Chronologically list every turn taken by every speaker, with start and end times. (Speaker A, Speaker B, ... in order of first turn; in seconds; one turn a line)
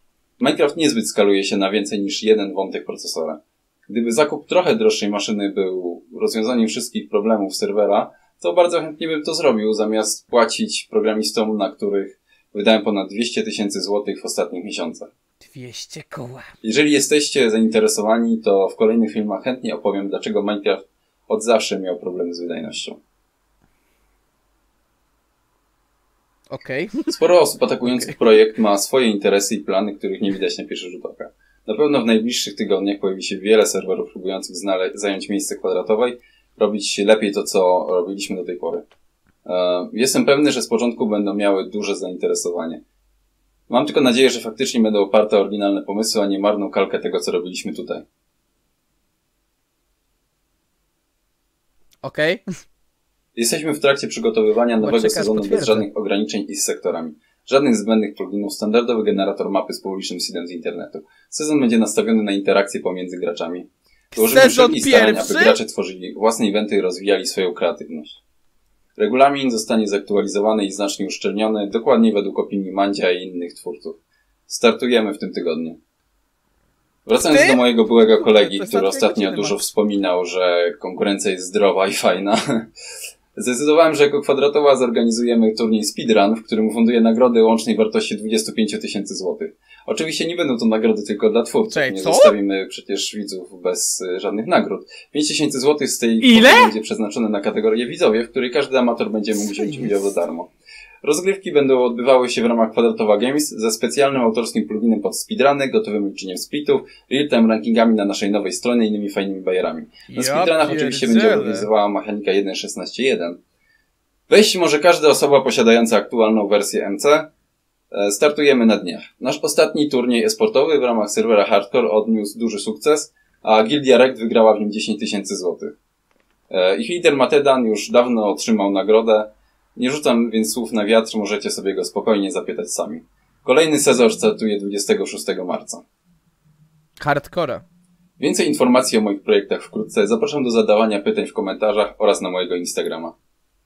Speaker A: 0.4-15.1
Speaker B: 15.5-16.5
Speaker A: 16.6-23.0
Speaker B: 26.5-27.1
Speaker A: 27.1-38.8
Speaker B: 27.9-28.1
Speaker A: 39.4-42.8
Speaker A: 43.7-48.0
Speaker B: 52.0-52.4
Speaker A: 53.3-68.2
Speaker B: 54.8-55.9
Speaker B: 64.1-65.6
Speaker A: 69.0-75.8
Speaker A: 77.0-82.7
Speaker B: 77.3-79.6
Speaker A: 83.3-100.5
Speaker B: 91.7-92.3
Speaker B: 96.2-96.7
Speaker B: 99.6-99.9
Speaker A: 101.0-113.4
Speaker B: 110.1-111.7
Speaker A: 114.3-117.3
Speaker A: 117.9-125.7
Speaker A: 126.5-135.8
Speaker B: 137.0-137.6
Speaker A: 138.2-143.2